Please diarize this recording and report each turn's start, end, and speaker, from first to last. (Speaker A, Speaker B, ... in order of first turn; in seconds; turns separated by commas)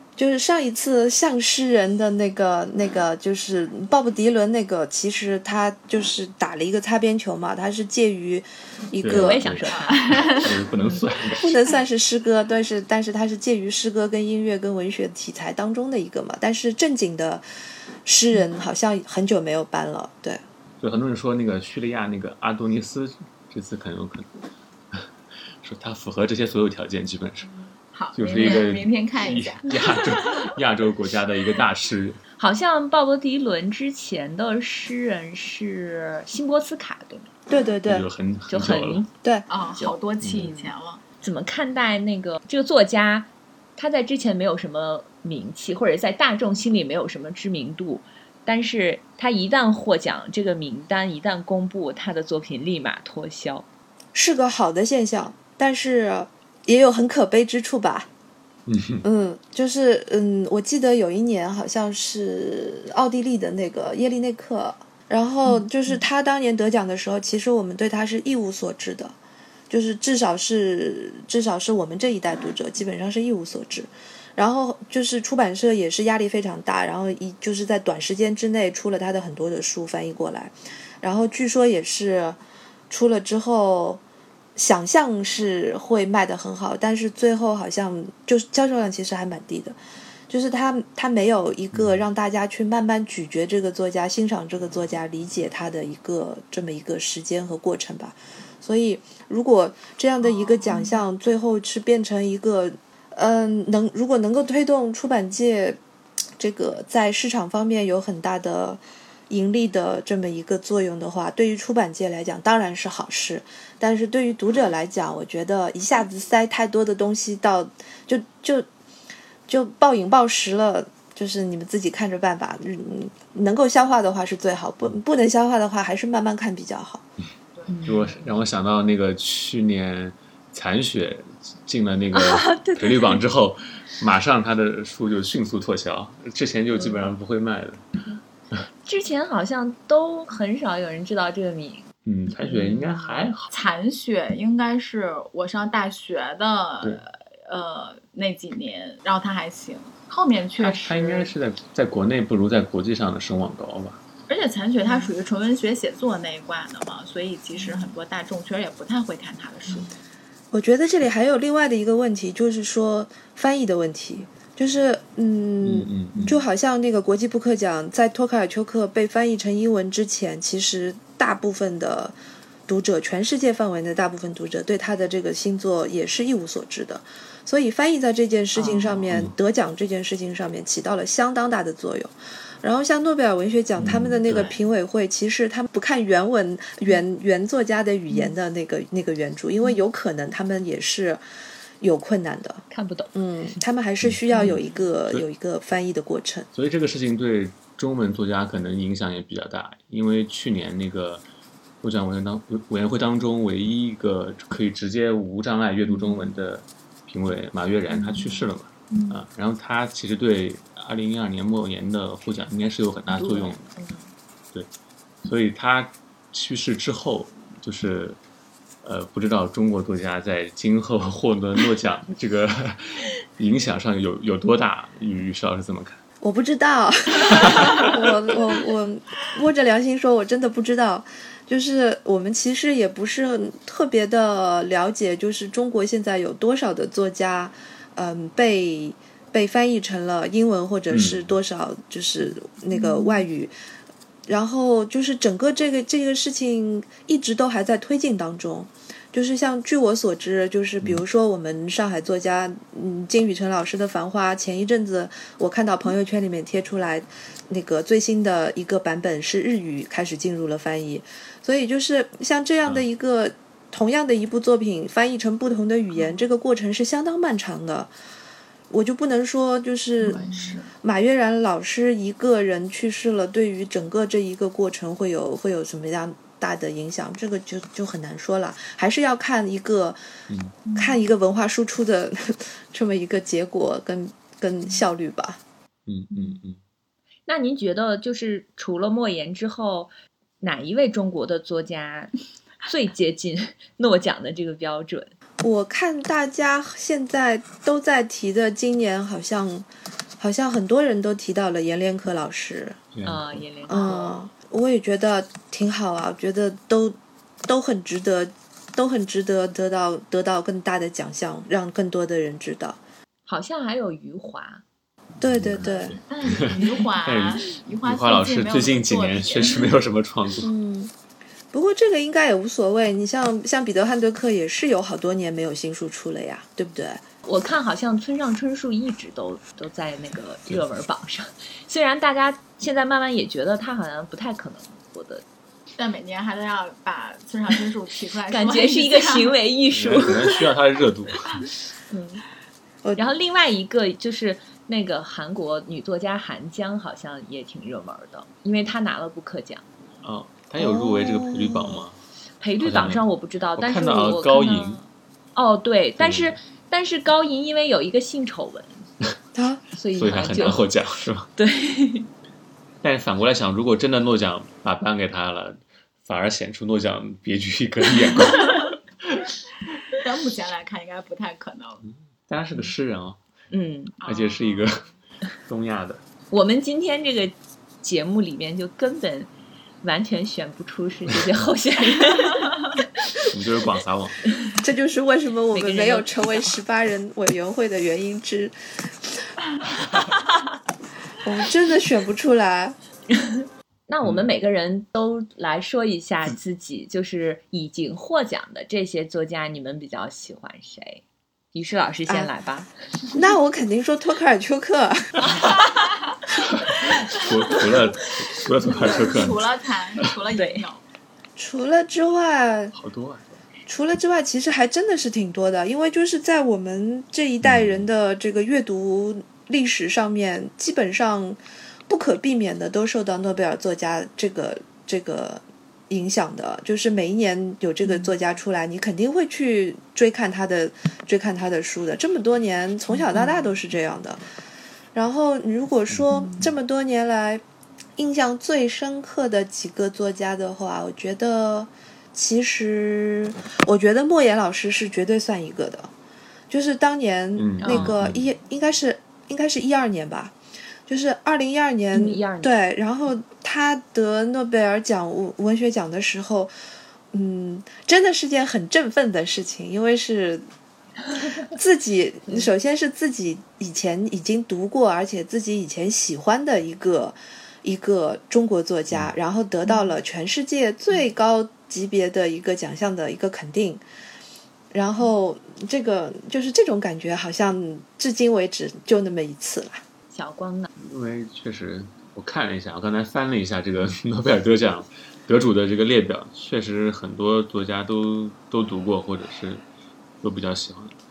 Speaker A: 0.2-9.6, Speaker B: 9.0-11.5, Speaker C: 9.1-11.1, Speaker D: 9.7-10.5, Speaker A: 11.4-17.4, Speaker A: 18.1-20.4, Speaker B: 20.8-24.3, Speaker B: 25.6-27.5, Speaker D: 27.9-30.5, Speaker B: 28.2-32.2, Speaker C: 28.4-28.7, Speaker C: 32.4-37.3, Speaker A: 37.5-38.1, Speaker B: 37.9-39.0, Speaker C: 38.5-39.1, Speaker D: 39.5-41.0, Speaker C: 39.8-53.7, Speaker B: 40.2-40.5, Speaker A: 54.1-58.1, Speaker B: 58.7-59.0, Speaker A: 59.0-69.2, Speaker A: 69.7-82.4, Speaker A: 82.9-84.0, Speaker A: 84.6-89.8, Speaker A: 90.3-105.8, Speaker B: 91.7-92.0, Speaker D: 100.3-101.0, Speaker A: 106.4-118.7, Speaker A: 119.5-127.0, Speaker D: 127.5-127.8, Speaker C: 127.7-128.3, Speaker B: 127.8-137.8, Speaker C: 132.1-133.2, Speaker C: 136.7-137.1, Speaker C: 138.8-141.9, Speaker B: 142.1-143.5, Speaker C: 142.4-143.3, Speaker D: 143.5-151.3, Speaker B: 150.6-154.0, Speaker D: 154.3-159.9, Speaker C: 154.9-155.1, Speaker A: 160.5-172.2, Speaker B: 165.6-166.4, Speaker A: 172.7-191.2, Speaker C: 178.6-179.0, Speaker B: 183.8-184.5, Speaker A: 191.8-196.5, Speaker C: 192.7-193.1, Speaker B: 194.0-195.2, Speaker B: 196.5-201.2, Speaker B: 201.8-213.7, Speaker C: 205.9-206.3, Speaker C: 207.9-208.4, Speaker C: 213.1-214.1, Speaker B: 215.2-218.2, Speaker B: 218.8-226.0, Speaker A: 226.2-243.5, Speaker B: 227.3-227.9, Speaker B: 240.9-241.3, Speaker A: 244.3-267.9, Speaker A: 268.7-270.2, Speaker D: 270.0-270.7, Speaker C: 270.1-270.6, Speaker A: 270.8-280.0, Speaker B: 280.3-280.6, Speaker D: 280.7-280.9, Speaker A: 280.8-285.4, Speaker B: 285.9-286.6, Speaker C: 287.3-292.1, Speaker C: 292.6-295.1, Speaker A: 295.4-299.7, Speaker A: 300.2-302.8, Speaker B: 302.9-303.4, Speaker C: 303.1-304.2, Speaker A: 303.7-312.8, Speaker C: 313.3-314.6, Speaker A: 315.2-316.0, Speaker B: 315.2-320.5, Speaker D: 315.6-319.7, Speaker A: 320.4-320.9, Speaker A: 321.5-327.0, Speaker C: 327.2-335.2, Speaker D: 335.8-339.3, Speaker C: 338.3-340.4, Speaker B: 339.7-341.4, Speaker C: 341.9-342.2, Speaker A: 342.8-343.1, Speaker C: 343.0-349.6, Speaker B: 350.0-352.0, Speaker A: 350.6-351.9, Speaker C: 352.4-358.9, Speaker B: 352.6-353.0, Speaker B: 353.6-354.8, Speaker B: 356.0-356.4, Speaker A: 359.4-359.6, Speaker C: 359.8-360.7, Speaker B: 359.9-361.3, Speaker C: 361.4-362.1, Speaker B: 362.8-369.3, Speaker D: 368.3-368.7, Speaker D: 369.9-371.9, Speaker B: 371.9-373.2, Speaker C: 373.5-374.0, Speaker D: 374.0-374.9, Speaker B: 374.0-374.8, Speaker B: 375.4-376.0, Speaker C: 376.3-379.3, Speaker C: 379.8-382.5, Speaker B: 383.3-384.2, Speaker A: 384.6-389.3, Speaker C: 385.5-386.5, Speaker A: 391.2-392.8, Speaker C: 393.2-401.0, Speaker B: 394.0-394.3, Speaker C: 401.5-402.7, Speaker A: 403.1-405.4, Speaker D: 405.4-406.2, Speaker B: 406.4-409.5, Speaker D: 407.1-407.7, Speaker D: 408.6-410.8, Speaker C: 410.3-410.7, Speaker A: 411.4-412.8, Speaker B: 412.7-413.5, Speaker A: 413.7-434.2, Speaker B: 417.4-417.9, Speaker C: 432.9-433.4, Speaker A: 434.9-437.4, Speaker C: 436.1-436.4, Speaker A: 438.0-445.9, Speaker A: 446.5-450.4, Speaker B: 447.4-448.3, Speaker C: 447.6-448.0, Speaker A: 450.9-456.5, Speaker C: 451.9-452.6, Speaker A: 457.1-460.4, Speaker A: 461.4-473.8, Speaker A: 474.7-479.8, Speaker C: 480.1-480.7, Speaker B: 480.8-489.6, Speaker B: 490.2-490.9